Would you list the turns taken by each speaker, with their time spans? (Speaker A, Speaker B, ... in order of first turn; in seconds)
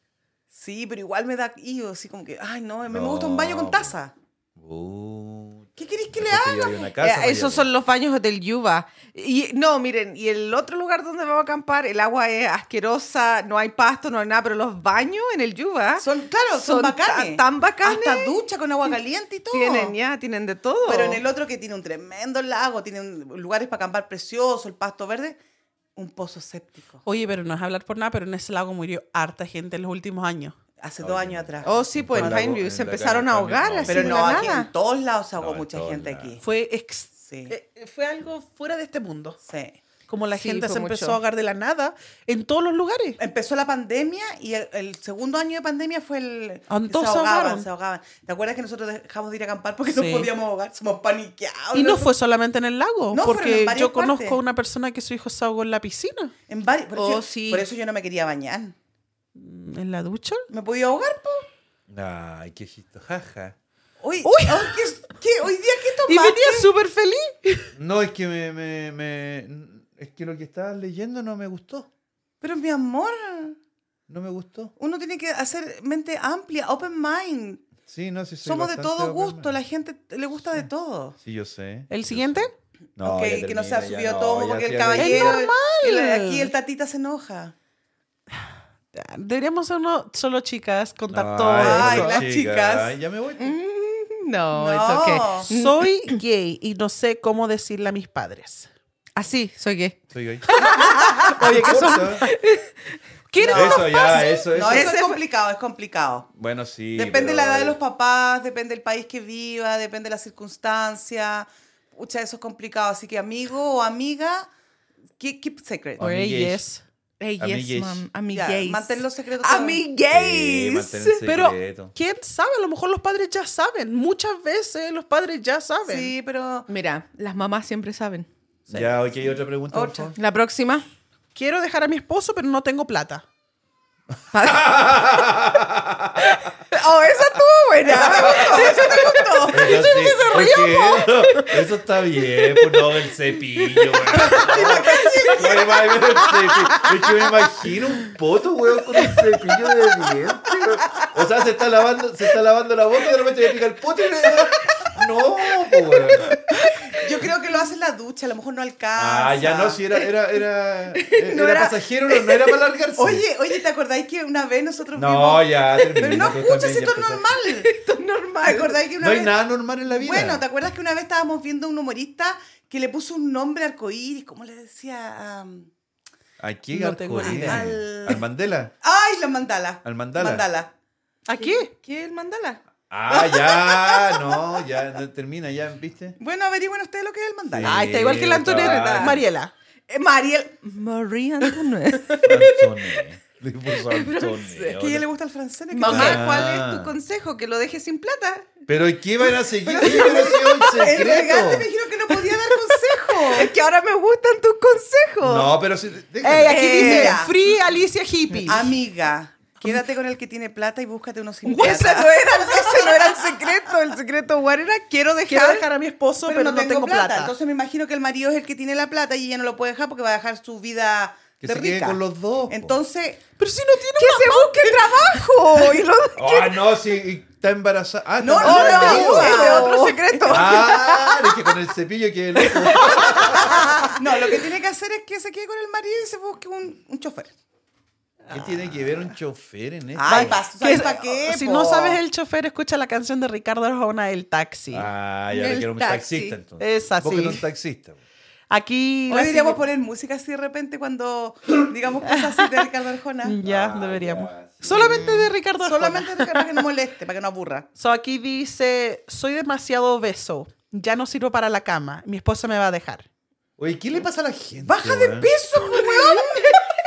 Speaker A: 0.5-4.1, 5.8-6.9, 16.0-19.9, 20.9-25.4, 25.9-27.0, 30.8-32.4, 33.9-36.4, 37.2-37.5, 39.4-39.8, 43.2-52.1, 53.1-54.4, 56.5-58.7, 60.5-61.5, 64.0-66.7, 72.4-73.5, 74.8-77.7, 78.4-81.2, 83.0-87.5, 91.5-92.9, 94.5-95.5, 103.4-106.3, 106.9-114.5, 115.2-116.0, 118.3-119.8, 125.8-126.7, 129.7-130.1, 137.8-140.1, 144.2-145.9, 156.9-159.8, 161.3-161.7, 163.0-167.7, 168.4-169.3, 169.9-175.7, 177.2-178.2, 178.8-180.7, 183.1-184.4, 186.2-187.9, 194.7-196.3, 199.6-203.5, 206.6-207.3, 208.5-213.7, 216.2-223.2, 228.2-230.7, 233.2-237.3, 239.9-242.0, 249.1-253.4, 255.6-257.7, 264.6-266.6
Speaker B: 2.9-3.9, 4.5-7.7, 31.0-34.4, 35.4-36.4, 61.9-63.5, 67.8-71.9, 74.1-74.7, 77.8-79.6, 81.2-85.4, 91.1-93.5, 100.1-100.5, 101.2-102.3, 103.5-104.9, 106.3-107.8, 116.0-116.6, 117.4-118.0, 120.1-121.9, 128.7-130.2, 134.4-136.4, 138.0-138.9, 139.5-156.4, 158.9-163.2, 164.9-167.3, 169.0-170.4, 176.4-178.7, 179.8-180.4, 182.9-186.2, 187.5-189.2, 192.2-195.1, 195.8-196.9, 198.7-201.7, 205.2-206.7, 221.4-222.8, 226.2-229.6, 230.3-233.8, 238.3-240.4, 244.7-248.0, 253.4-255.3, 263.6-265.3
Speaker C: 7.0-18.3, 19.5-21.2, 31.6-34.7, 40.3-41.2, 56.9-57.7, 93.4-96.2, 99.2-100.0, 100.5-101.1, 104.3-105.2, 117.2-121.2, 126.7-128.3, 130.1-130.8, 134.3-134.7, 136.2-139.4, 161.0-161.7, 165.8-166.3, 167.6-168.8, 181.3-182.6, 188.4-189.2, 189.9-192.4, 193.8-194.8, 195.7-198.6, 199.8-200.1, 203.3-205.5, 206.5-207.2, 208.3-208.5, 211.5-215.7, 224.0-226.6, 228.4-231.3, 232.8-233.9, 245.3-246.4
Speaker D: 27.0-30.5, 36.4-39.4, 40.1-43.2, 46.7-47.7, 49.9-50.3, 51.7-56.3, 59.4-60.5, 64.2-64.9, 66.1-67.7, 81.9-82.5, 85.0-86.5, 88.9-92.2, 95.5-98.7, 100.5-102.6, 103.3-104.5, 116.0-116.8, 121.2-126.1, 131.3-133.2, 139.5-141.6, 144.3-145.4, 176.7-177.7, 181.3-181.7, 187.6-189.5, 206.2-208.8, 211.4-212.0, 215.3-217.3, 223.4-225.7, 228.4-230.0, 232.7-233.9, 238.3-239.0, 240.1-244.9, 246.6-247.4, 248.5-249.6, 252.3-252.6, 253.2-256.5, 257.8-263.1, 265.6-266.6